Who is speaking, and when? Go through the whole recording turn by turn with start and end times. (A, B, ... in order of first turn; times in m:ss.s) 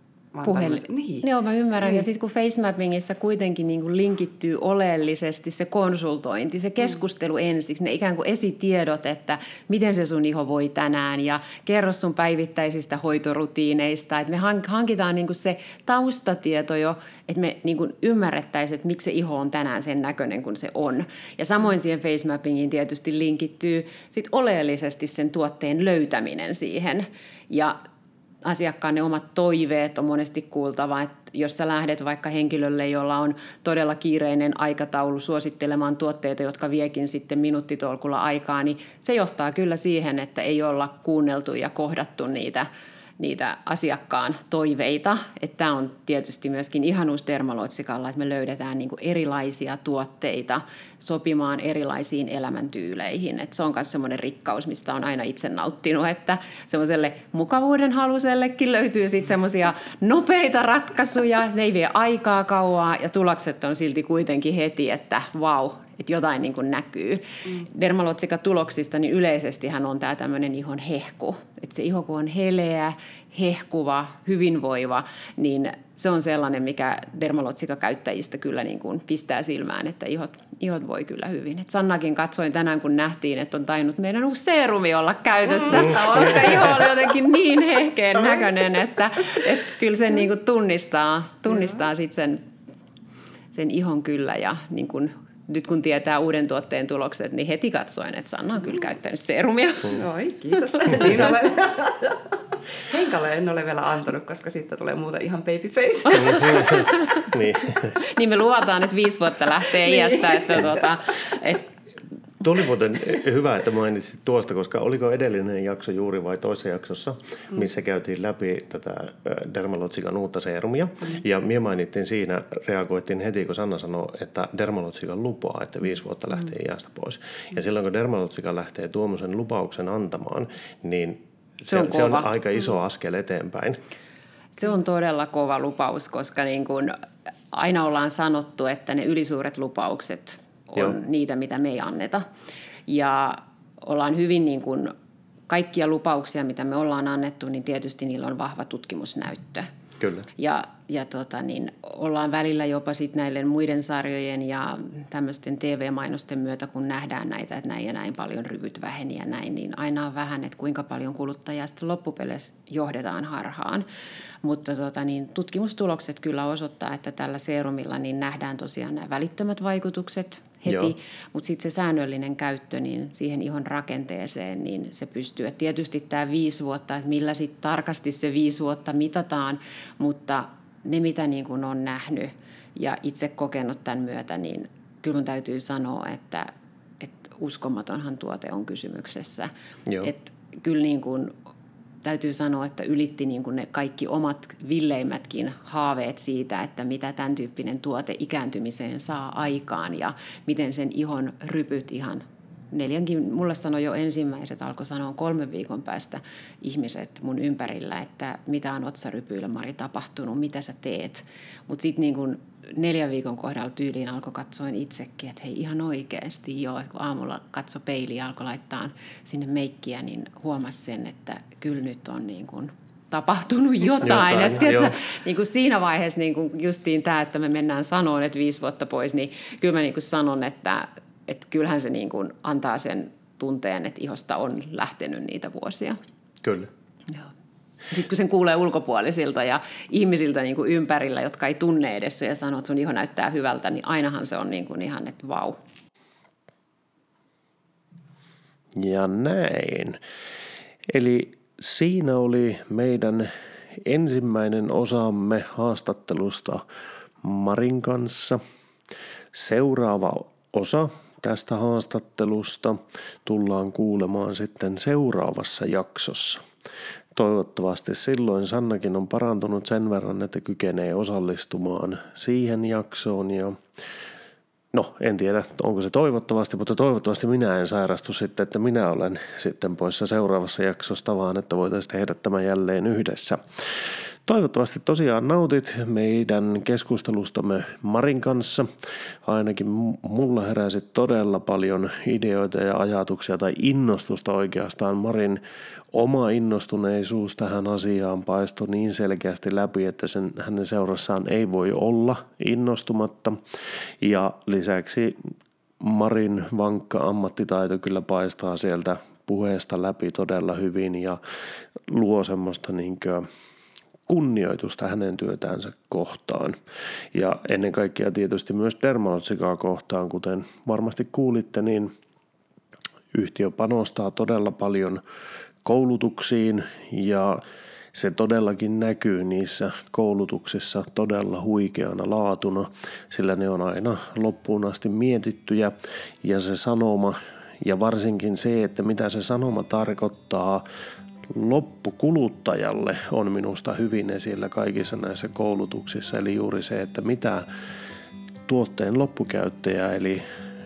0:00.3-0:01.3 A
0:00.4-0:27.8 B
0:28.4-0:42.7 B
0:43.2-1:32.5 B
1:25.6-1:26.8 A
1:33.5-1:40.0 B
1:39.9-1:42.3 A
1:42.9-1:46.9 A
1:46.1-1:48.0 C
1:48.0-1:51.7 B
1:49.8-1:50.6 A
1:52.4-2:13.8 C
2:11.7-2:12.3 B
2:14.6-2:17.0 B
2:17.5-2:22.3 B
2:22.9-2:24.9 B
2:25.5-2:29.7 B
2:30.0-2:30.3 C
2:30.4-2:43.9 B
2:44.4-3:09.5 B
2:50.6-2:50.9 C
3:10.0-3:11.3 B
3:12.0-3:56.0 B
3:44.0-3:44.9 C
3:56.4-3:56.7 C
3:57.9-4:05.6 B
4:08.8-4:10.0 C
4:10.9-4:16.6 C
4:17.2-4:18.4 C
4:19.3-4:26.4 C
4:27.1-4:33.6 C
4:34.7-4:43.4 C
4:44.3-4:48.7 C
4:49.2-4:55.4 C
4:55.9-5:03.4 C
5:04.0-5:05.3 C
5:05.8-5:11.2 C
5:11.9-5:13.2 C
5:14.1-5:16.6 C
5:17.1-5:21.9 C
5:23.1-5:25.0 C
5:25.6-5:27.4 C
5:27.9-5:40.6 C
5:41.3-5:47.5 C
5:48.5-5:50.2 C